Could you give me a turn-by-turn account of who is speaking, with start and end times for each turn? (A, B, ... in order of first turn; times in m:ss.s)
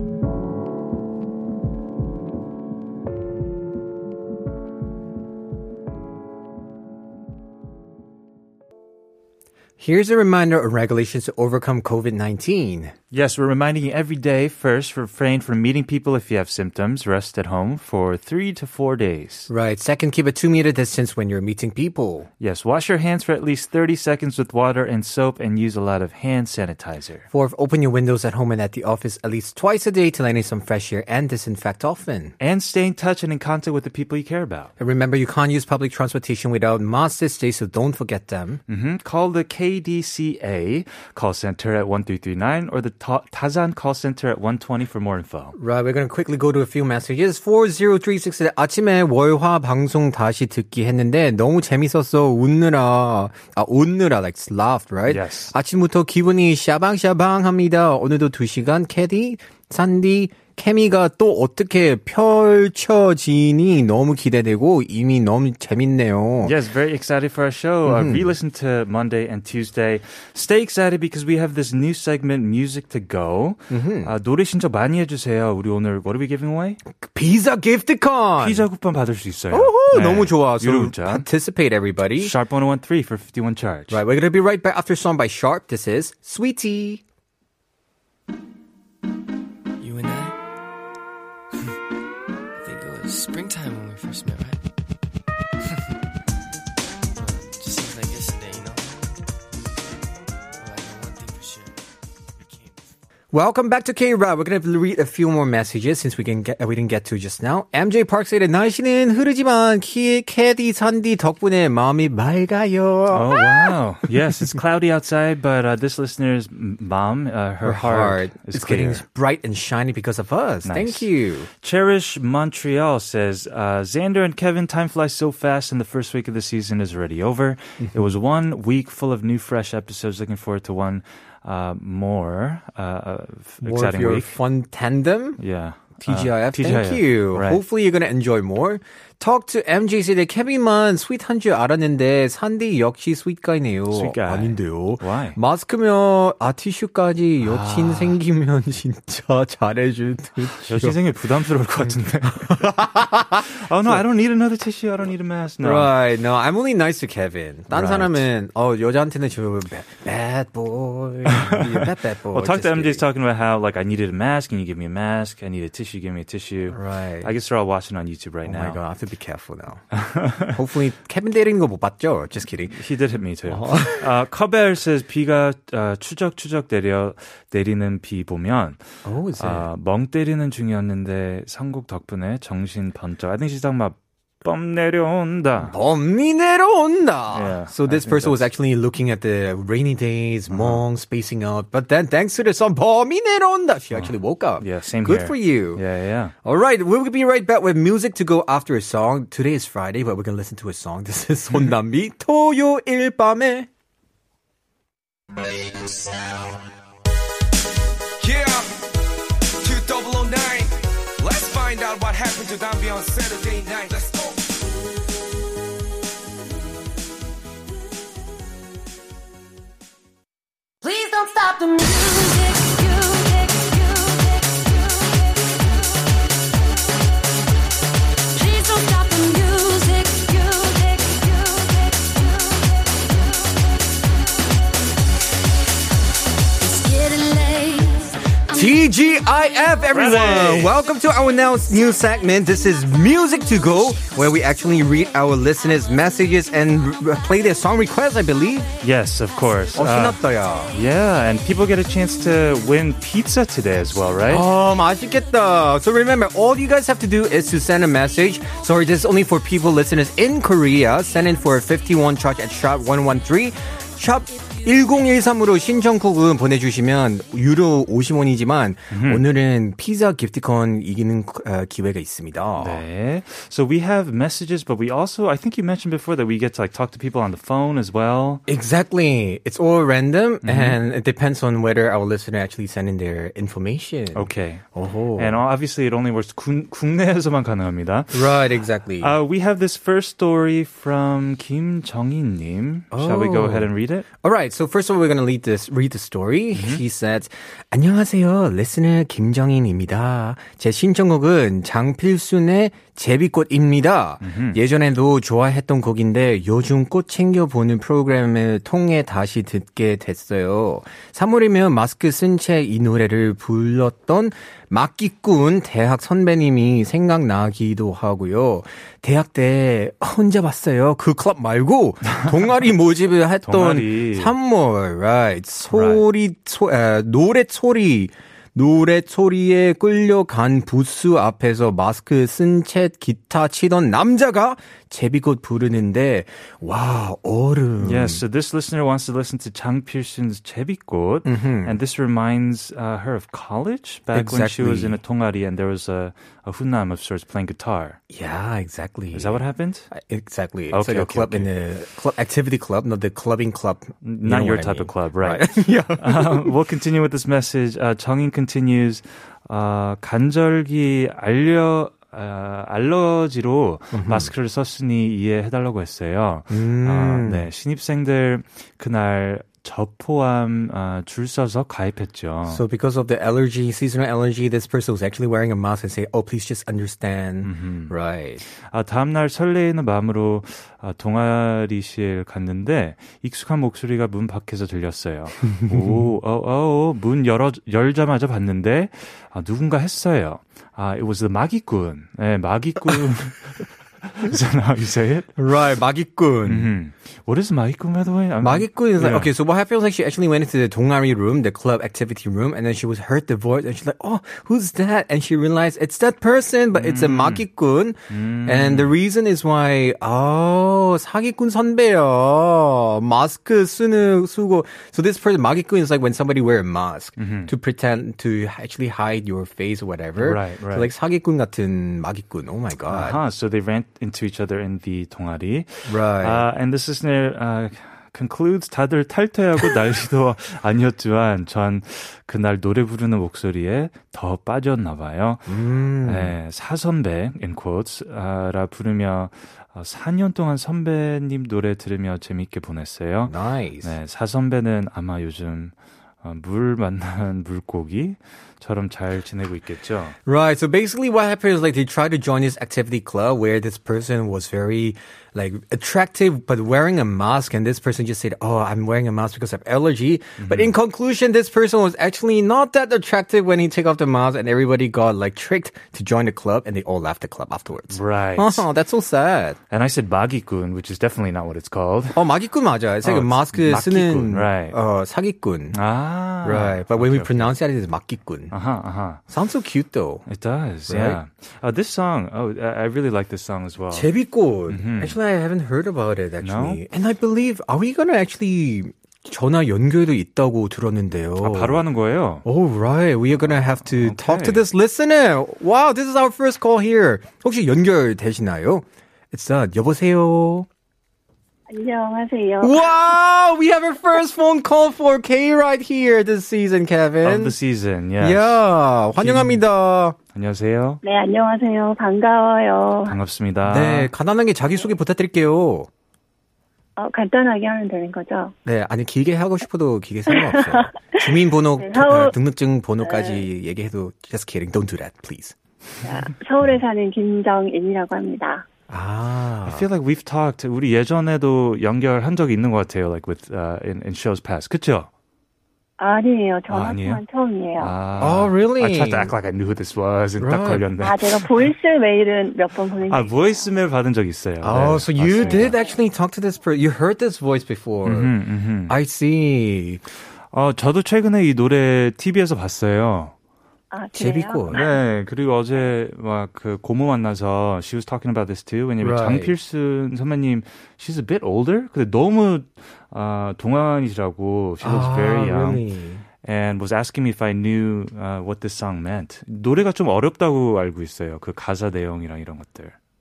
0:09.8-0:12.9 A
0:13.1-0:19.5 B
0:19.5-0:22.3 A
0:22.4-0:27.3 B
0:27.3-0:32.4 A
0:32.4-0:34.7 B
0:34.8-0:38.6 A
0:38.7-0:45.6 B
0:45.6-1:06.6 A
0:55.1-0:55.5 B
1:06.4-1:16.8 B
1:07.8-1:08.3 A
1:13.7-1:14.1 A
1:17.0-1:18.6 A
1:18.4-1:21.2 B
1:19.5-1:22.3 A
1:22.2-1:24.0 B
1:23.9-1:27.0 A
1:29.8-1:30.4 C
1:32.6-1:34.6 C
1:35.6-1:35.9 C
1:37.1-1:39.0 C
1:40.6-1:41.8 C
1:42.4-1:42.9 C
1:43.3-1:53.8 A
1:53.1-1:59.0 B
1:57.6-2:01.5 A
2:00.6-2:01.1 B
2:01.6-2:14.3 B
2:07.8-2:08.1 A
2:13.6-2:15.4 A
2:15.4-2:17.6 B
2:16.0-2:31.0 A
2:23.9-2:25.4 B
2:27.4-2:28.2 B
2:30.6-2:32.8 B
2:32.3-2:34.0 A
2:33.4-2:35.9 B
2:35.6-2:43.0 A
2:37.7-2:38.2 B
2:41.3-2:48.8 B
2:46.7-2:47.3 A
2:48.4-2:49.8 A
2:49.9-2:50.6 B
2:50.4-2:52.8 A
2:52.7-2:58.8 B
2:53.5-2:54.1 A
2:59.0-2:59.7 A
2:59.4-3:05.8 B
3:05.6-3:15.8 A
3:07.3-3:08.4 B
3:10.5-3:10.8 B
3:13.9-3:16.3 B
3:16.4-3:23.7 A
3:28.2-3:28.9 D
3:29.6-3:34.5 D
3:40.8-3:46.1 E
3:48.3-3:54.0 E
3:56.6-3:58.8 E
3:58.5-4:08.7 A
3:59.9-4:00.8 B
4:08.8-4:10.2 B
4:09.7-4:10.8 A
4:10.7-4:14.4 B
4:14.3-4:32.8 A
4:28.9-4:29.2 B
4:32.6-4:38.4 B
4:38.5-4:45.4 A
4:40.4-4:40.8 B
4:44.1-4:44.6 B
4:45.2-4:48.4 B
4:48.1-4:49.1 A
4:49.0-4:54.0 B
4:52.9-5:38.2 A
4:56.5-4:56.8 B
5:04.2-5:04.6 B
5:23.4-5:24.3 B
5:25.7-5:26.0 B
5:37.8-5:48.0 B
5:41.2-5:41.8 A
5:44.1-5:45.0 A
5:48.1-5:56.5 A
5:49.1-5:49.9 B
5:50.7-5:51.5 B
5:54.0-6:12.6 B
6:03.9-6:04.3 A
6:06.5-6:07.5 A
6:12.5-6:18.4 A
6:17.4-6:35.4 B
6:25.5-6:26.1 A
6:35.4-6:36.7 A
6:36.4-6:39.3 B
6:38.4-7:03.2 A
6:46.7-6:47.4 B
6:48.1-6:48.9 B
6:57.2-6:57.5 B
7:00.2-7:00.9 B
7:02.9-7:15.5 B
7:05.8-7:06.4 A
7:15.5-7:16.4 A
7:16.0-7:30.2 B
7:23.2-7:23.9 A
7:30.2-7:49.6 A
7:40.4-7:40.7 B
7:47.9-7:48.6 B
7:49.7-7:52.2 B
7:52.1-7:55.8 A
7:53.0-7:54.8 B
7:55.7-7:57.5 B
7:56.4-7:58.5 A
7:58.5-7:59.2 B
7:59.3-8:00.3 A
8:00.3-8:04.1 B
8:00.9-8:01.2 A
8:03.9-8:11.8 A
8:04.7-8:05.2 B
8:06.4-8:06.8 B
8:11.4-8:12.4 B
8:12.4-8:20.7 A
8:13.4-8:14.6 B
8:21.7-8:23.0 F
8:22.6-8:27.6 A
8:27.2-8:28.6 B
8:28.2-8:30.2 A
8:29.2-8:29.6 B
8:30.3-8:31.0 B
8:31.0-8:33.2 F
8:33.1-8:34.1 B
8:33.6-8:35.9 A
8:37.0-8:38.5 F
8:38.6-8:45.6 A
8:40.3-8:41.2 F
8:41.8-8:42.3 F
8:43.0-8:43.4 F
8:46.0-8:48.7 F
8:48.9-8:49.9 A
8:49.6-8:55.1 B
8:56.0-8:57.9 F
8:56.7-8:57.2 B
8:57.8-9:01.6 B
8:58.2-8:59.3 A
9:00.4-9:00.8 A
9:01.0-9:03.6 F
9:03.1-9:05.8 B
9:04.6-9:08.3 A
9:05.3-9:05.9 F
9:08.0-9:08.9 B
9:08.9-9:10.0 A
9:10.5-9:13.3 B
9:13.9-9:15.0 F
9:14.1-9:14.8 A
9:14.7-9:25.8 B
9:19.0-9:19.5 A
9:24.8-9:26.2 A
9:26.4-9:32.9 B